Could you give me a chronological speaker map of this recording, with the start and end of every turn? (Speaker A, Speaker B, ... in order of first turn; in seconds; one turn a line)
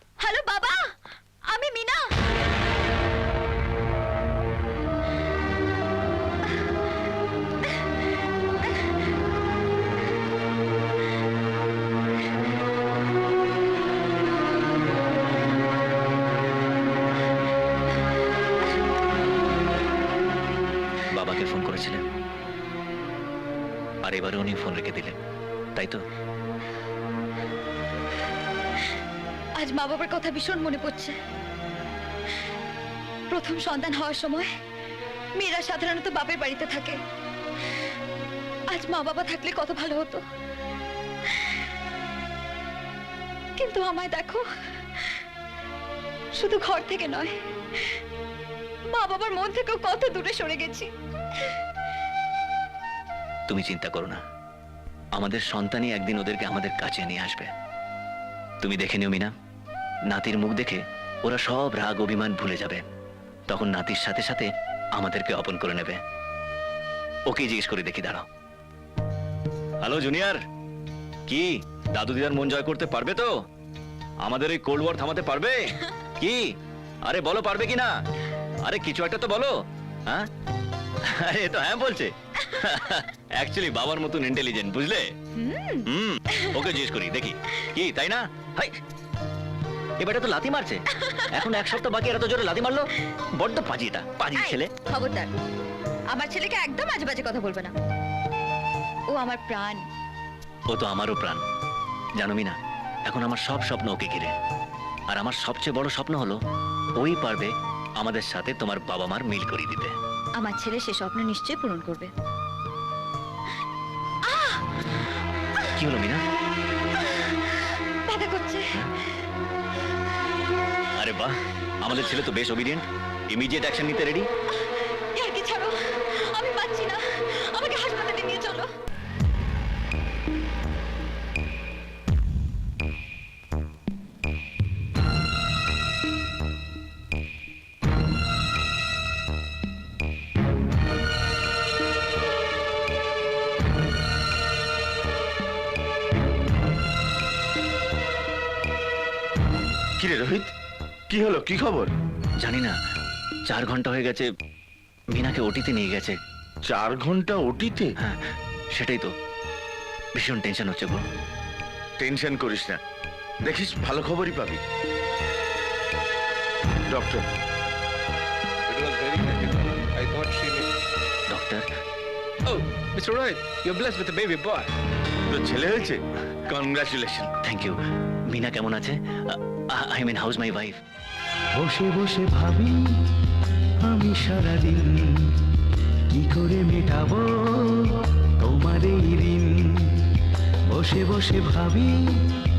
Speaker A: 0.2-2.2
Speaker B: 21.1-22.0
Speaker B: 24.0-25.2
Speaker B: 25.8-26.0
Speaker A: 29.6-31.2
Speaker A: 33.3-34.5
Speaker A: 35.4-37.0
Speaker A: 38.7-40.2
Speaker A: 43.6-45.2
Speaker A: 46.4-48.0
Speaker A: 48.9-50.9
Speaker B: 53.5-54.2
Speaker B: 55.2-57.5
Speaker B: 58.6-59.3
Speaker B: 60.1-62.9
Speaker B: 63.5-66.0
Speaker B: 67.3-68.3
Speaker B: 69.8-70.4
Speaker B: 71.3-73.3
Speaker B: 74.2-76.5
Speaker B: 77.1-78.0
Speaker B: 78.6-79.6
Speaker B: 81.1-85.1
Speaker A: 85.3-86.6
Speaker B: 85.9-88.7
Speaker B: 90.0-94.7
Speaker A: 91.0-91.5
Speaker A: 94.3-95.3
Speaker A: 96.1-97.7
Speaker A: 99.1-99.8
Speaker B: 100.7-101.4
Speaker B: 102.2-102.5
Speaker B: 103.1-104.3
Speaker B: 105.1-106.4
Speaker B: 107.0-109.9
Speaker A: 110.4-112.1
Speaker A: 114.2-114.7
Speaker B: 115.7-116.2
Speaker A: 117.0-118.8
Speaker B: 121.0-124.3
Speaker A: 124.7-128.7
Speaker C: 150.0-150.5
Speaker C: 151.1-151.9
Speaker B: 152.4-152.7
Speaker B: 153.5-154.3
Speaker B: 155.1-156.2
Speaker C: 156.7-157.9
Speaker B: 158.8-159.1
Speaker B: 160.2-161.0
Speaker C: 162.0-162.8
Speaker C: 163.4-164.6
Speaker C: 166.9-167.3
Speaker D: 168.7-170.7
Speaker B: 171.3-171.7
Speaker D: 172.5-174.7
Speaker C: 175.3-177.3
Speaker B: 177.4-180.8
Speaker E: 181.6-183.0
Speaker E: 183.8-185.5
Speaker E: 186.1-192.4